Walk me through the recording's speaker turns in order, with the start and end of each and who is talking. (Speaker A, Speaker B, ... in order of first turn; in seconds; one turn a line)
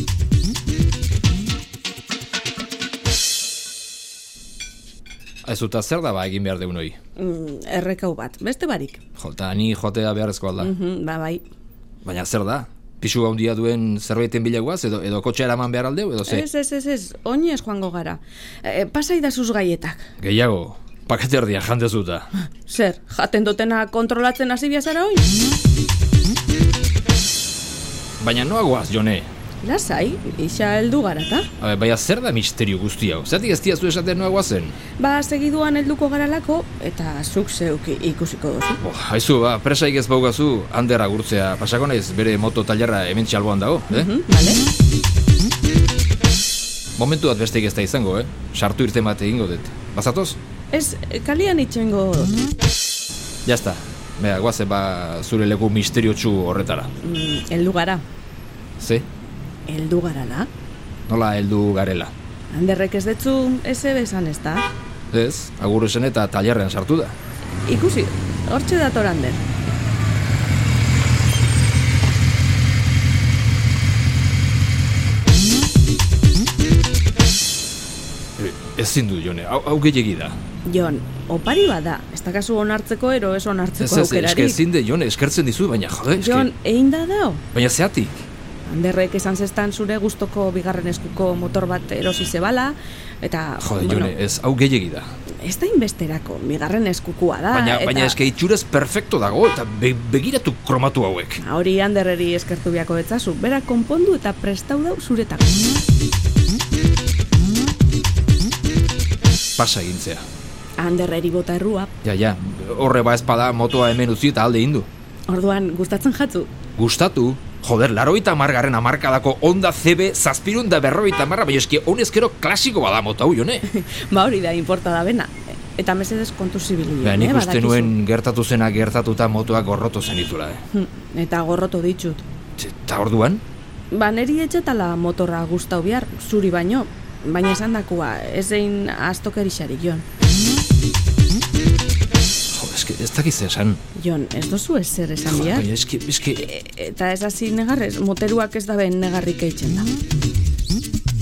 Speaker A: 5.4-7.0
Speaker B: 7.2-9.0
Speaker A: 9.2-10.7
Speaker B: 10.6-11.4
Speaker A: 12.0-16.4
Speaker B: 16.3-20.1
Speaker A: 20.2-22.3
Speaker B: 22.7-25.3
Speaker A: 28.2-29.3
Speaker B: 29.6-31.5
Speaker A: 31.6-34.8
Speaker B: 35.0-38.8
Speaker A: 38.8-44.1
Speaker B: 43.9-44.6
Speaker A: 47.0-50.4
Speaker B: 50.7-52.3
Speaker A: 53.5-56.9
Speaker B: 57.0-58.0
Speaker A: 58.8-59.1
Speaker B: 59.7-60.5
Speaker A: 61.1-62.1
Speaker B: 62.5-64.7
Speaker A: 65.1-67.2
Speaker B: 67.6-69.4
Speaker A: 78.4-80.4
Speaker B: 80.7-84.6
Speaker A: 83.8-86.5
Speaker B: 86.2-87.4
Speaker A: 87.5-88.2
Speaker B: 88.7-94.2
Speaker A: 93.6-95.1
Speaker B: 95.4-98.2
Speaker A: 97.5-101.4
Speaker B: 101.4-105.8
Speaker A: 109.6-110.3
Speaker B: 110.8-111.9
Speaker A: 112.0-114.9
Speaker B: 115.3-116.5
Speaker A: 116.8-123.7
Speaker B: 123.7-128.0
Speaker A: 127.0-130.6
Speaker B: 130.7-132.2
Speaker A: 132.6-133.4
Speaker B: 133.9-140.0
Speaker A: 142.5-143.8
Speaker B: 143.9-145.7
Speaker A: 145.3-146.5
Speaker B: 146.4-149.9